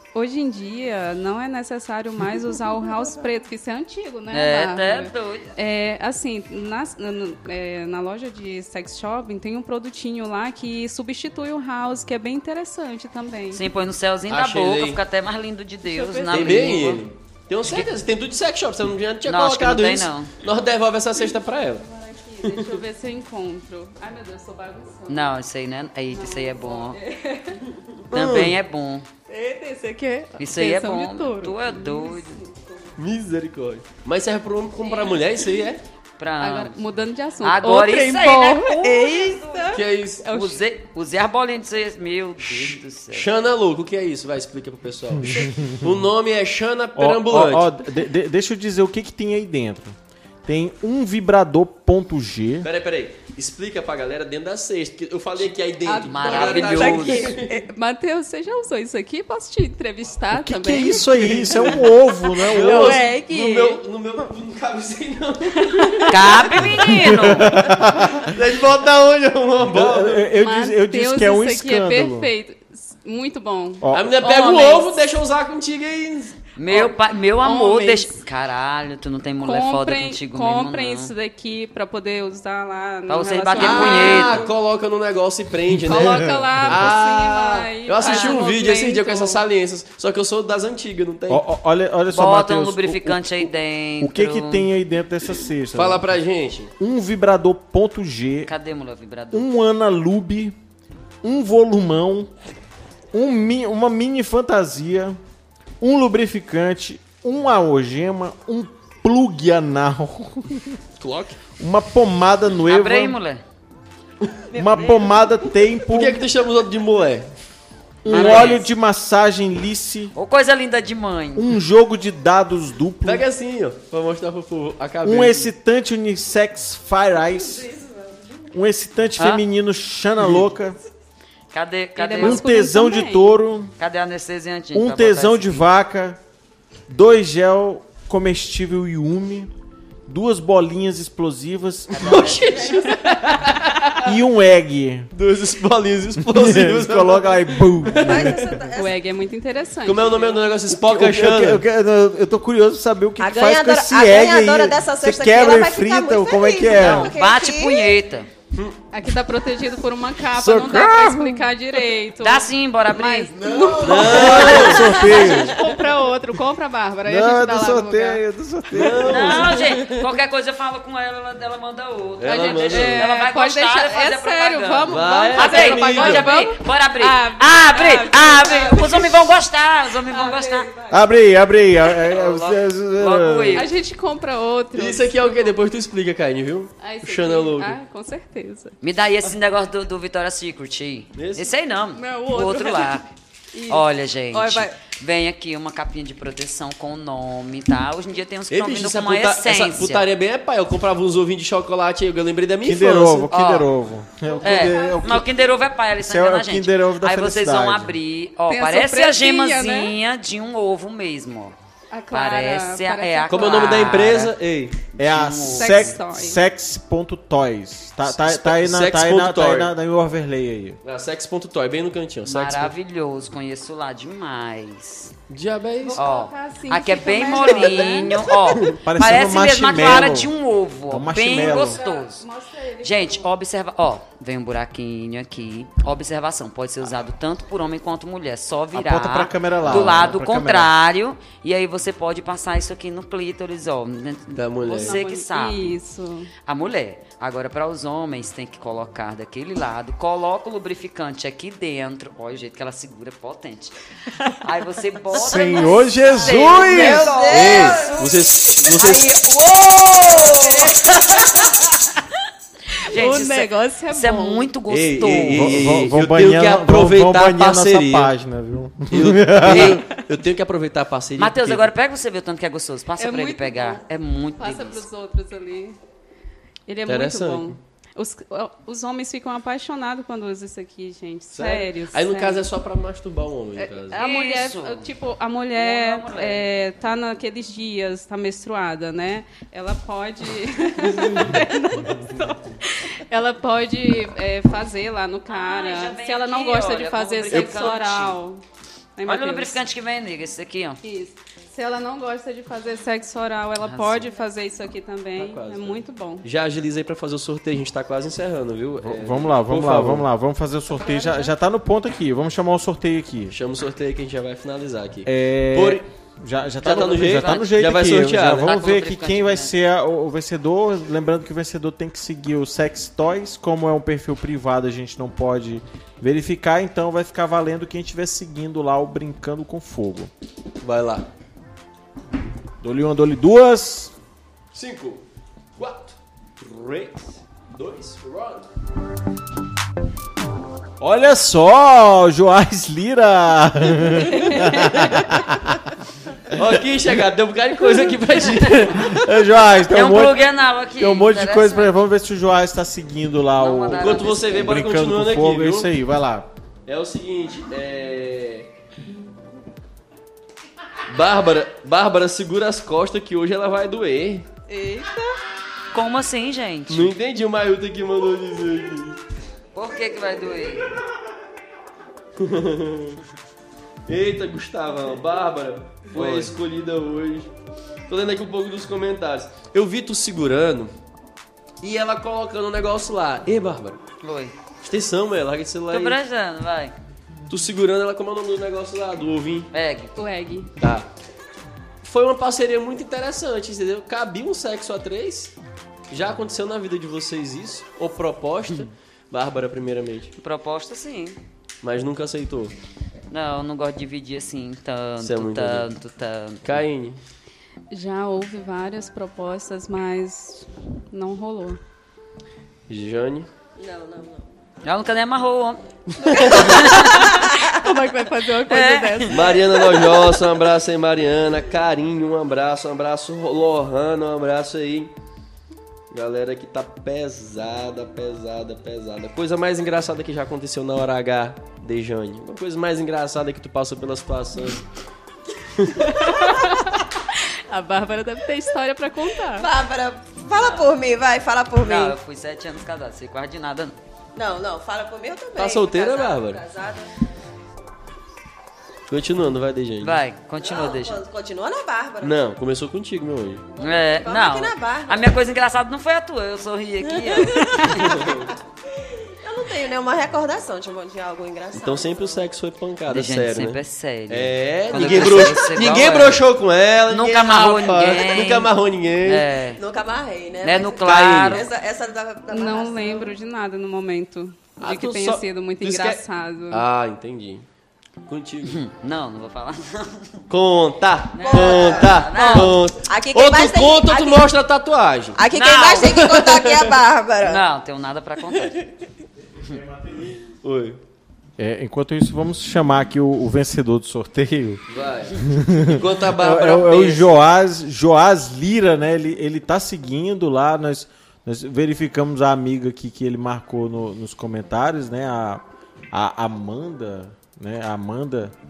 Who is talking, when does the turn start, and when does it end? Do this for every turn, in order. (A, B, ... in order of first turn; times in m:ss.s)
0:00.1-0:13.6 A
0:04.3-0:05.5 B
0:13.5-0:17.0 B
0:14.3-0:15.0 C
0:15.8-0:16.8 A
0:16.3-0:21.8 C
0:17.6-0:17.9 B
0:19.2-0:20.3 B
0:21.8-0:25.3 A
0:22.4-0:22.8 C
0:25.1-0:27.0 B
0:26.1-0:27.8 A
0:28.1-0:28.6 C
0:28.1-0:29.1 B
0:29.3-0:32.9 A
0:30.4-0:32.4 B
0:33.0-0:35.8 C
0:34.8-0:35.6 A
0:36.2-0:36.8 B
0:36.4-0:40.6 A
0:37.4-0:43.3 B
0:39.7-0:40.3 C
0:42.4-0:47.8 C
0:45.3-0:45.9 D
0:47.0-0:52.7 D
0:52.6-0:57.6 C
0:55.8-1:03.7 A
0:56.0-0:57.4 B
1:00.3-1:03.0 D
1:01.2-1:06.6 C
1:02.6-1:03.8 E
1:05.6-1:06.3 A
1:06.1-1:07.6 B
1:06.9-1:08.4 D
1:07.7-1:10.3 C
1:09.6-1:12.3 D
1:10.3-1:15.0 A
1:13.8-1:14.2 D
1:13.9-1:16.4 C
1:16.6-1:21.1 B
1:16.7-1:18.2 A
1:19.4-1:24.5 A
1:23.1-1:24.4 B
1:23.6-1:31.4 C
1:25.7-1:26.9 D
1:25.8-1:29.4 A
1:28.0-1:28.4 B
1:31.3-1:36.1 D
1:32.1-1:34.7 B
1:35.7-1:36.7 C
1:36.8-1:38.5 D
1:38.4-1:39.5 B
1:39.3-1:40.5 D
1:41.2-1:42.3 D
1:43.1-1:45.2 D
1:45.8-1:50.8 D
1:51.0-1:51.4 C
1:51.6-1:53.2 D
1:52.7-1:53.4 B
1:54.5-1:55.4 E
1:54.5-1:56.2 D
1:55.8-1:57.3 C
1:58.0-2:00.1 D
1:58.1-1:58.7 B
1:58.1-1:58.5 C
2:00.1-2:01.5 B
2:01.4-2:03.3 D
2:03.0-2:05.5 C
2:05.0-2:07.7 D
2:07.2-2:08.5 E
2:08.5-2:10.8 D
2:09.2-2:09.4 B
2:11.5-2:12.5 B
2:12.0-2:13.4 A
2:12.2-2:13.7 D
2:13.8-2:15.7 B
2:14.7-2:16.2 D
2:16.9-2:19.5 D
2:20.1-2:22.5 D
2:21.9-2:24.1 C
2:22.0-2:22.5 B
2:24.0-2:25.1 D
2:25.1-2:28.5 C
2:26.2-2:28.6 D
2:27.9-2:29.0 E
2:28.7-2:30.4 A
2:29.8-2:31.6 C
2:30.7-2:37.2 D
2:33.2-2:38.0 E
2:36.7-2:38.3 B
2:38.5-2:38.8 C
2:38.9-2:48.2 A
2:40.3-2:41.8 D
2:42.2-2:43.4 B
2:43.5-2:43.8 E
2:43.8-2:45.4 C
2:43.9-2:45.6 D
2:44.0-2:44.7 B
2:47.0-2:49.5 D
2:48.7-2:49.5 C
2:49.0-3:00.7 B
2:52.2-2:53.1 C
2:52.6-2:59.2 A
2:54.8-2:56.4 C
3:00.0-3:01.0 A
3:00.9-3:03.7 D
3:01.9-3:03.7 B
3:03.5-3:05.6 A
3:04.7-3:07.8 C
3:06.8-3:08.8 A
3:08.8-3:13.0 B
3:11.2-3:11.5 C
3:11.9-3:13.0 A
3:13.5-3:14.8 A
3:13.7-3:20.1 B
3:18.5-3:23.3 C
3:22.6-3:25.3 D
3:23.3-3:23.7 B
3:24.3-3:25.0 A
3:24.4-3:31.5 B
3:26.0-3:28.0 D
3:28.5-3:29.9 A
3:31.9-3:33.8 A
3:32.1-3:34.3 B
3:33.3-3:34.8 C
3:35.0-3:40.8 D
3:35.0-3:35.9 B
3:35.6-3:36.4 A
3:38.0-3:39.7 C
3:40.8-3:42.7 C
3:42.2-3:45.1 B
3:45.3-3:46.0 C
3:45.8-3:48.3 A
3:45.9-3:52.2 B
3:48.7-3:50.3 D
3:50.9-3:51.8 D
3:51.2-3:53.3 A
3:52.8-4:05.7 B
3:58.7-4:00.7 D
3:59.6-4:00.1 C
4:04.3-4:05.0 C
4:04.8-4:06.3 A
4:06.4-4:21.5 B
4:15.1-4:17.2 D
4:15.2-4:16.1 A
4:16.4-4:18.0 E
4:16.8-4:19.1 C
4:20.3-4:20.8 A
4:22.7-4:25.6 B
4:22.8-4:24.5 A
4:24.7-4:28.1 C
4:25.1-4:29.8 D
4:28.9-4:31.7 C
4:29.4-4:29.9 B
4:31.2-4:34.9 B
4:33.0-4:33.8 A
4:34.4-4:35.8 A
4:36.7-4:42.5 A
4:36.9-4:37.6 C
4:41.3-4:44.0 C
4:43.6-4:58.4 A
4:43.9-4:44.9 B
4:45.6-4:46.4 B
4:55.3-4:58.2 B
4:57.3-4:57.7 C
4:59.0-4:59.6 A
4:59.0-5:00.8 B
5:00.8-5:06.2 A
5:03.6-5:04.1 B
5:05.2-5:10.1 C
5:08.8-5:13.3 D
5:10.7-5:11.3 E
5:13.3-5:15.8 C
5:15.0-5:30.1 D
5:16.6-5:18.5 C
5:17.0-5:17.5 B
5:18.3-5:19.5 B
5:30.6-5:31.1 C
5:32.6-5:33.9 D
5:34.5-5:35.0 C
5:35.6-5:38.4 C
5:40.8-5:45.7 D
5:46.3-5:49.0 C
5:48.4-5:56.3 D
5:49.7-5:51.7 B
5:53.4-5:54.5 B
5:53.7-5:55.7 C
5:56.6-5:58.5 C
6:00.9-6:04.3 C
6:04.5-6:04.9 A
6:05.7-6:06.9 B
6:06.7-6:09.0 C
6:09.5-6:10.7 B
6:12.2-6:13.0 C
6:13.9-6:17.3 C
6:15.9-6:16.3 B
6:17.9-6:20.7 C
6:21.6-6:23.8 C
6:24.0-6:24.3 B
6:24.6-6:26.0 C
6:25.7-6:26.7 B
6:27.3-6:29.5 C
6:29.5-6:30.0 B
6:30.0-6:30.5 A
6:30.6-6:30.9 C
6:31.8-6:35.3 C
6:35.9-6:40.1 C
6:40.2-6:41.2 B
6:41.6-6:42.5 C
6:43.1-6:46.4 B
6:45.0-6:45.7 C
6:46.4-6:47.0 C
6:47.7-6:51.6 A
6:52.7-6:53.3 C
6:53.6-6:54.3 E
6:54.6-6:57.4 B
6:56.0-6:56.6 C
6:56.1-7:00.1 A
6:58.4-6:59.4 B
6:59.1-7:04.9 C
7:05.9-7:14.6 C
7:15.5-7:15.9 C
7:15.8-7:19.5 A
7:19.3-7:22.0 E
7:20.3-7:20.7 B
7:21.6-7:23.8 B
7:24.1-7:26.9 E
7:25.4-7:26.4 C
7:28.9-7:30.0 C
7:29.8-7:31.0 B
7:30.4-7:32.2 E
7:32.0-7:33.4 C
7:33.5-7:35.2 E
7:33.6-7:38.1 B
7:36.9-7:42.2 E
7:37.7-7:38.3 C
7:41.5-7:49.3 C
7:42.9-7:46.2 B
7:44.8-7:45.2 E
7:46.9-7:48.5 B
7:49.0-7:49.6 B
7:49.5-7:53.1 E
7:50.4-7:51.5 B
7:50.8-7:51.4 C
7:52.3-7:56.6 A
7:54.6-7:57.4 C
7:58.0-7:58.6 C
7:58.4-8:00.2 B
8:00.3-8:05.2 C
8:01.1-8:02.6 B
8:01.2-8:04.3 E
8:05.2-8:07.4 E
8:05.3-8:06.1 B
8:05.9-8:06.8 C
8:07.2-8:08.6 B
8:09.5-8:10.1 D
8:10.3-8:10.8 C
8:11.4-8:28.3 D
8:14.7-8:17.1 C